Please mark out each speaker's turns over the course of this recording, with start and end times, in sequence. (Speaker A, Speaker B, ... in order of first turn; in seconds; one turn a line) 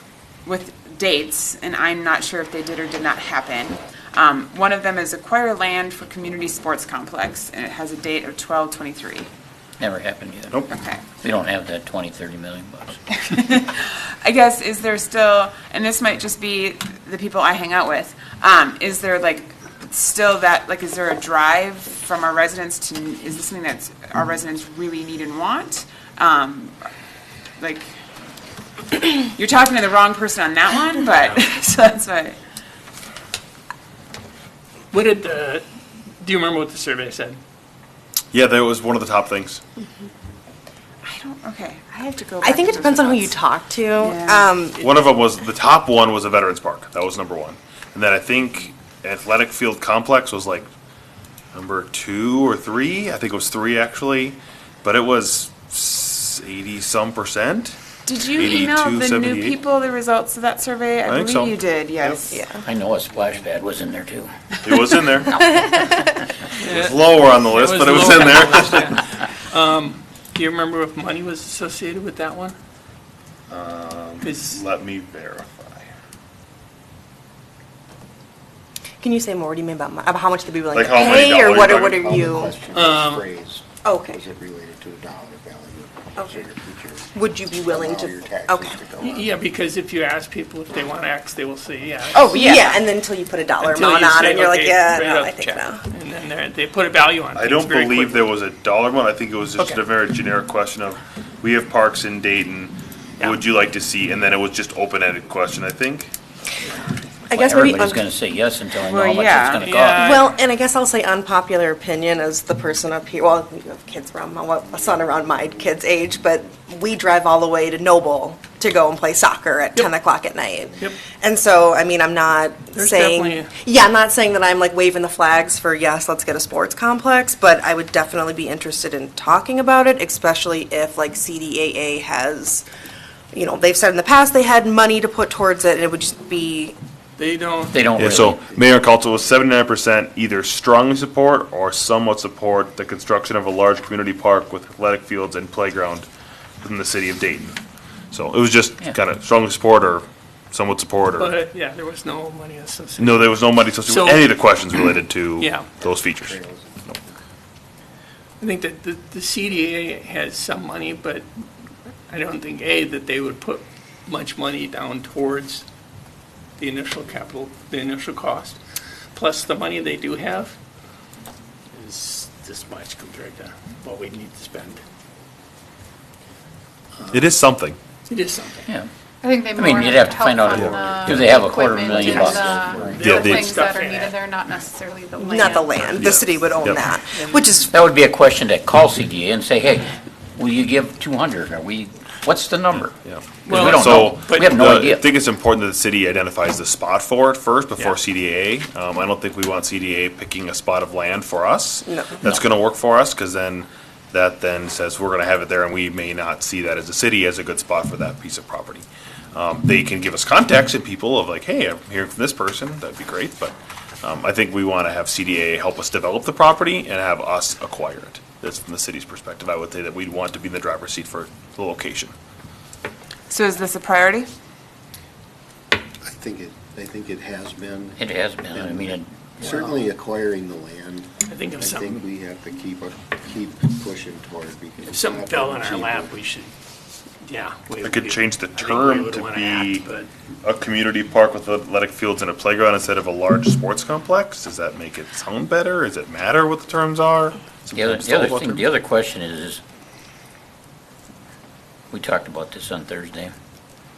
Speaker A: 0.4-9.3
Speaker B: 9.8-10.6
Speaker A: 10.7-11.0
Speaker B: 11.2-13.0
Speaker A: 13.2-26.9
Speaker A: 27.6-27.9
Speaker A: 28.9-32.4
Speaker C: 34.9-35.6
Speaker C: 36.2-37.4
Speaker D: 38.3-39.6
Speaker A: 41.0-43.4
Speaker E: 42.4-44.8
Speaker A: 44.0-44.5
Speaker D: 44.8-50.7
Speaker D: 51.5-57.8
Speaker A: 58.0-62.4
Speaker D: 58.3-59.6
Speaker D: 61.0-62.2
Speaker E: 62.3-62.6
Speaker B: 62.6-64.3
Speaker D: 64.6-65.4
Speaker E: 65.5-65.9
Speaker C: 66.6-72.5
Speaker D: 66.6-69.0
Speaker D: 73.5-75.8
Speaker C: 74.2-74.6
Speaker E: 79.0-82.5
Speaker D: 80.7-82.0
Speaker F: 81.5-89.3
Speaker C: 82.7-83.2
Speaker E: 83.8-84.2
Speaker E: 87.1-88.8
Speaker C: 89.0-92.6
Speaker A: 92.1-92.8
Speaker E: 92.3-95.8
Speaker C: 93.6-98.4
Speaker D: 97.3-106.1
Speaker C: 106.6-107.6
Speaker E: 107.3-108.0
Speaker B: 107.4-110.2
Speaker A: 108.8-109.7
Speaker C: 109.6-110.3
Speaker E: 110.0-132.7
Speaker C: 122.7-123.5
Speaker E: 133.3-136.8
Speaker C: 137.2-137.8
Speaker B: 137.7-138.4
Speaker D: 138.0-146.1
Speaker F: 138.1-139.4
Speaker D: 146.6-147.6
Speaker D: 148.1-151.3
Speaker C: 151.2-154.4
Speaker D: 153.0-156.9
Speaker C: 155.4-155.7
Speaker F: 155.8-157.1
Speaker C: 158.4-161.3
Speaker C: 162.1-165.6
Speaker C: 166.6-168.6
Speaker C: 169.1-170.5
Speaker C: 171.7-174.8
Speaker D: 177.1-177.8
Speaker C: 178.1-178.7
Speaker B: 178.7-183.0
Speaker G: 179.2-186.0
Speaker D: 180.5-181.2
Speaker F: 180.7-183.1
Speaker C: 182.9-184.2
Speaker D: 183.0-183.5
Speaker E: 185.1-187.7
Speaker D: 185.8-186.9
Speaker C: 187.1-187.4
Speaker B: 187.7-192.9
Speaker D: 193.0-222.1
Speaker C: 193.4-194.5
Speaker B: 193.5-195.1
Speaker E: 201.8-202.2
Speaker A: 223.3-224.3
Speaker F: 226.0-228.0
Speaker B: 228.0-229.1
Speaker F: 228.5-236.2
Speaker C: 229.4-229.9
Speaker C: 231.3-232.1
Speaker C: 234.8-236.5
Speaker C: 237.2-240.1
Speaker D: 237.8-239.9
Speaker D: 240.4-248.7
Speaker B: 247.7-249.6
Speaker B: 251.9-253.3